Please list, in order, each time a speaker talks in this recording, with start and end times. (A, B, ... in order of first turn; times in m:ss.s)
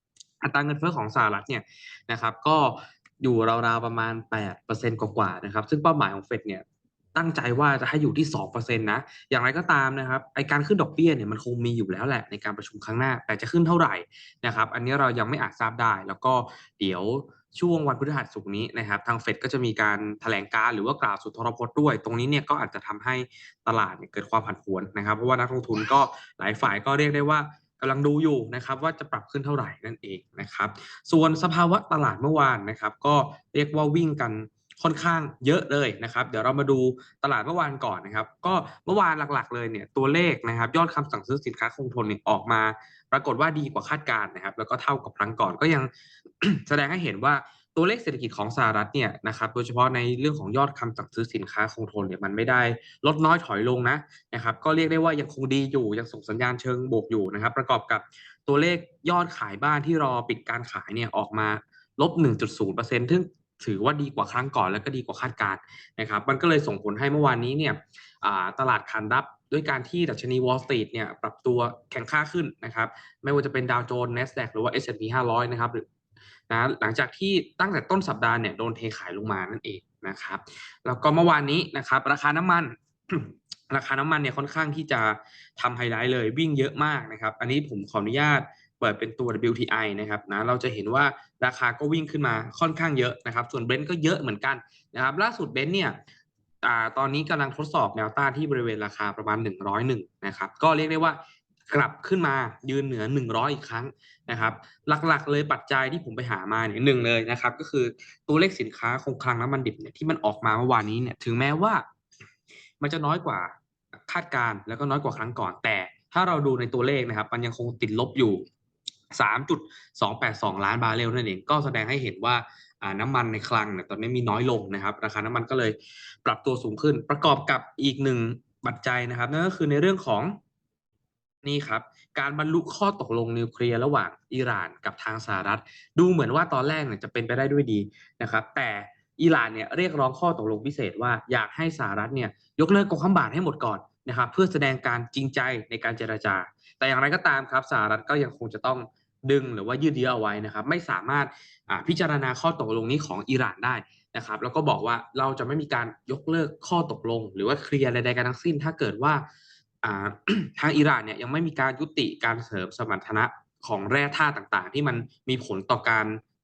0:00.4-0:06.6 A
0:07.2-0:45.9 A
0:46.4-1:15.8 A
1:16.5-1:36.0 A
1:36.6-1:51.8 A
1:52.8-1:53.5 A
1:54.1-1:58.4 A
1:59.1-2:10.4 A
2:11.4-2:39.2 A
2:39.8-2:46.2 A